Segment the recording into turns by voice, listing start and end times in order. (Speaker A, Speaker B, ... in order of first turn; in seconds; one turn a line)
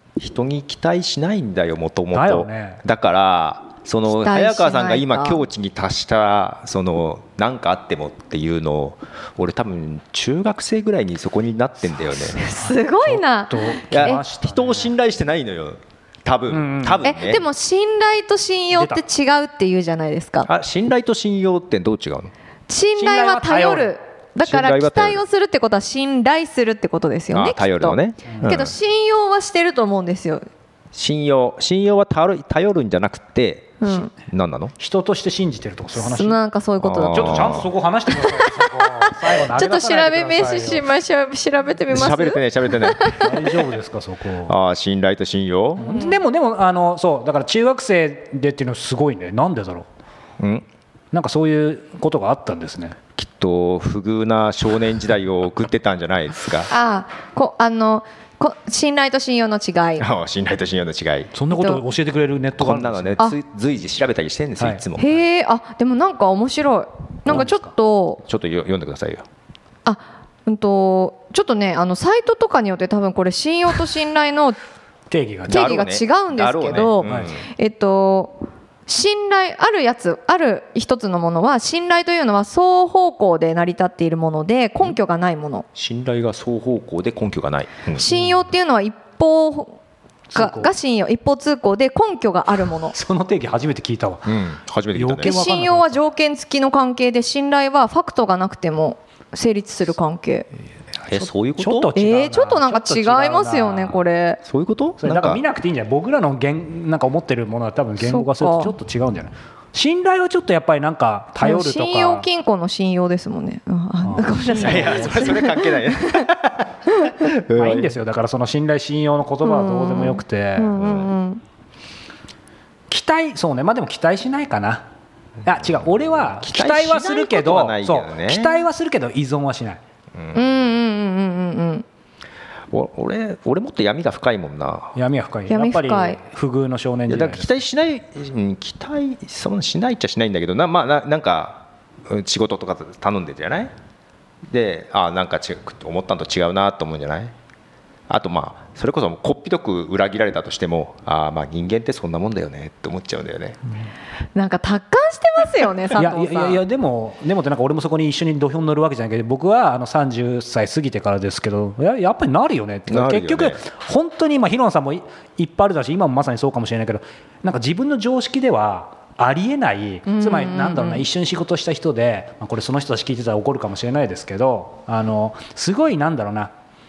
Speaker A: 0.2-12.4
Speaker B: 2.1-2.8
Speaker C: 4.1-5.4
Speaker B: 12.2-14.9
Speaker C: 12.3-14.2
Speaker A: 13.9-17.4
Speaker B: 16.5-17.1
Speaker C: 17.0-20.5
Speaker B: 18.7-19.0
Speaker A: 20.5-22.3
Speaker C: 22.7-30.4
Speaker B: 22.9-23.9
Speaker A: 24.4-25.2
Speaker A: 27.3-28.7
Speaker B: 28.3-28.6
Speaker A: 30.9-34.7
Speaker C: 33.8-34.1
Speaker B: 34.8-36.4
Speaker C: 36.0-43.4
Speaker A: 36.8-37.6
Speaker B: 37.1-40.9
Speaker A: 41.9-43.2
Speaker B: 43.2-44.5
Speaker A: 44.5-45.9
Speaker B: 45.8-49.9
Speaker C: 45.8-46.2
Speaker A: 50.4-50.6
Speaker B: 51.1-53.0
Speaker A: 53.2-56.7
Speaker C: 56.7-60.0
Speaker A: 60.0-61.3
Speaker B: 61.3-63.2
Speaker C: 61.5-61.8
Speaker A: 62.6-65.2
Speaker C: 65.0-68.2
Speaker B: 67.3-67.7
Speaker A: 68.2-69.2
Speaker C: 69.8-74.6
Speaker B: 75.1-75.7
Speaker C: 75.5-85.7
Speaker A: 75.5-77.4
Speaker B: 77.0-77.3
Speaker A: 85.7-88.0
Speaker C: 87.9-89.8
Speaker B: 88.1-88.5
Speaker B: 90.3-90.7
Speaker C: 90.3-92.9
Speaker B: 92.9-94.3
Speaker A: 94.3-95.3
Speaker B: 94.9-96.0
Speaker C: 95.2-100.5
Speaker A: 101.1-101.9
Speaker B: 101.1-104.0
Speaker C: 101.9-104.4
Speaker A: 104.4-105.4
Speaker B: 105.0-112.2
Speaker C: 108.0-108.7
Speaker C: 111.4-116.3
Speaker B: 114.0-115.5
Speaker A: 114.5-116.7
Speaker C: 116.9-117.3
Speaker A: 117.2-117.9
Speaker B: 117.5-120.8
Speaker C: 119.4-121.4
Speaker A: 120.8-121.1
Speaker B: 122.9-124.8
Speaker B: 125.4-129.8
Speaker A: 126.4-128.6
Speaker A: 130.2-130.4
Speaker C: 130.3-131.8
Speaker A: 132.7-134.9
Speaker B: 134.9-137.5
Speaker C: 135.5-136.2
Speaker A: 137.1-143.7
Speaker A: 144.5-147.3
Speaker A: 148.1-153.6
Speaker C: 154.3-156.6
Speaker B: 155.9-176.5
Speaker A: 162.9-163.6
Speaker C: 170.1-171.1